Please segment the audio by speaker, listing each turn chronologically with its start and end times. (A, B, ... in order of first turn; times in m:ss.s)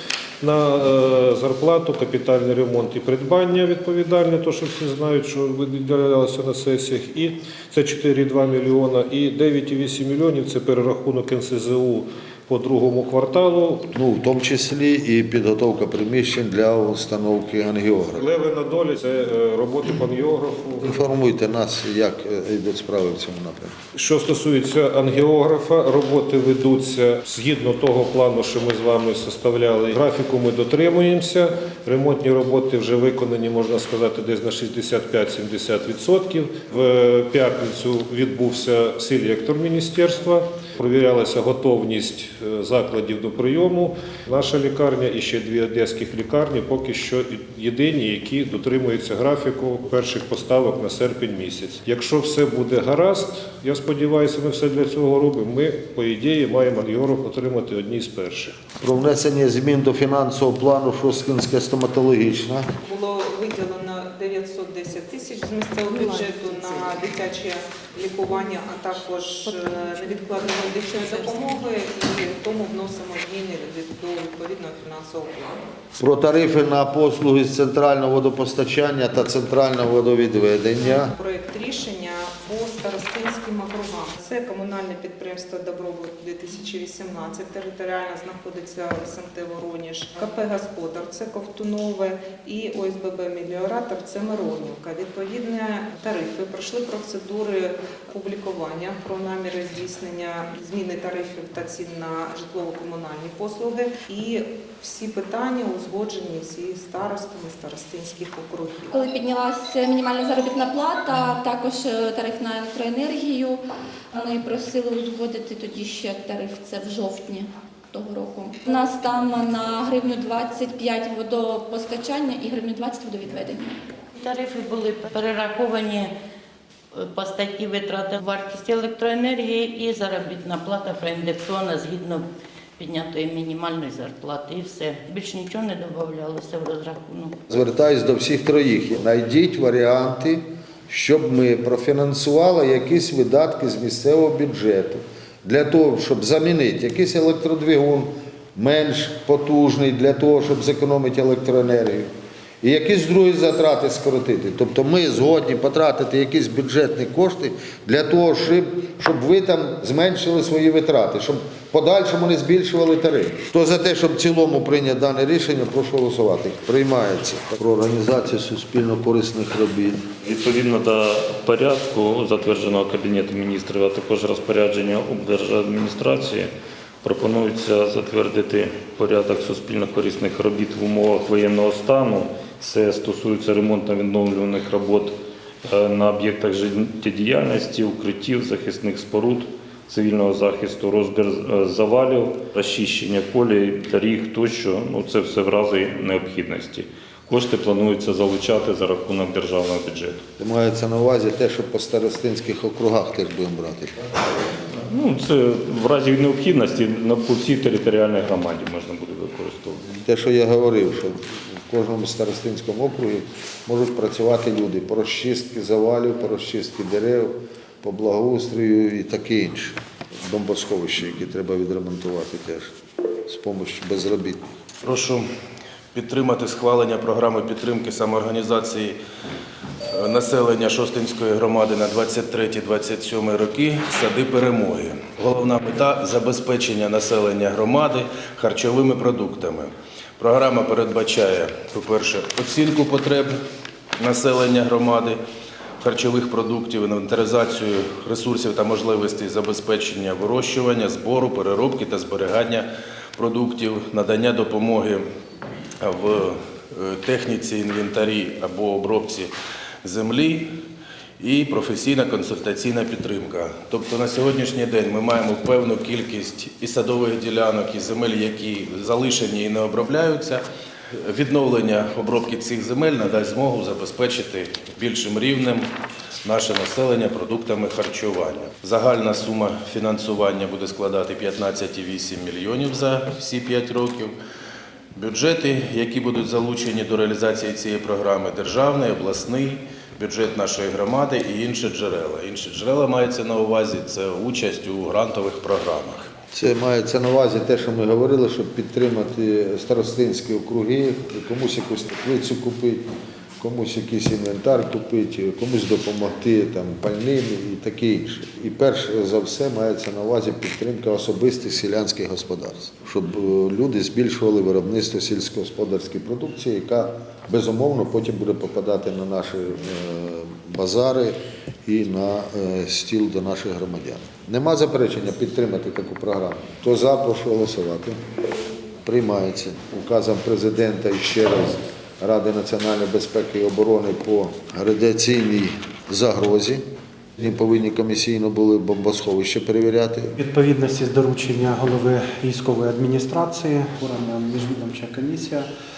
0:00.4-0:13.9 A
0:13.9-0:18.2 B
0:18.2-0:21.0 A
0:20.8-0:23.8 B
0:24.0-0:58.6 A
0:58.8-1:02.7 B
1:02.8-1:15.6 C
1:16.0-1:21.1 B
1:20.8-1:48.9 C
1:48.9-1:53.6 D
1:54.1-2:03.8 D
2:04.2-2:06.1 E
2:06.9-2:12.3 E
2:12.8-2:17.4 E
2:17.5-2:32.1 B
2:32.6-2:50.1 B
2:50.2-2:56.5 F
2:57.0-3:20.2 F
3:20.4-3:24.2 B
3:24.8-3:29.9 F
3:30.0-3:42.7 B
3:43.3-3:44.4 B
3:44.8-3:45.3 G
3:45.9-3:49.0 G
3:49.9-4:03.3 G
4:04.0-4:05.2 G
4:05.8-4:15.0 G
4:15.8-4:19.3 G
4:19.8-4:20.5 G
4:21.2-4:30.4 G
4:31.0-4:35.7 G
4:36.2-4:44.2 G
4:45.0-4:56.1 G
4:56.3-5:02.9 B
5:03.4-5:28.0 B
5:28.8-5:36.6 B
5:37.2-5:40.2 B
5:40.2-5:45.5 H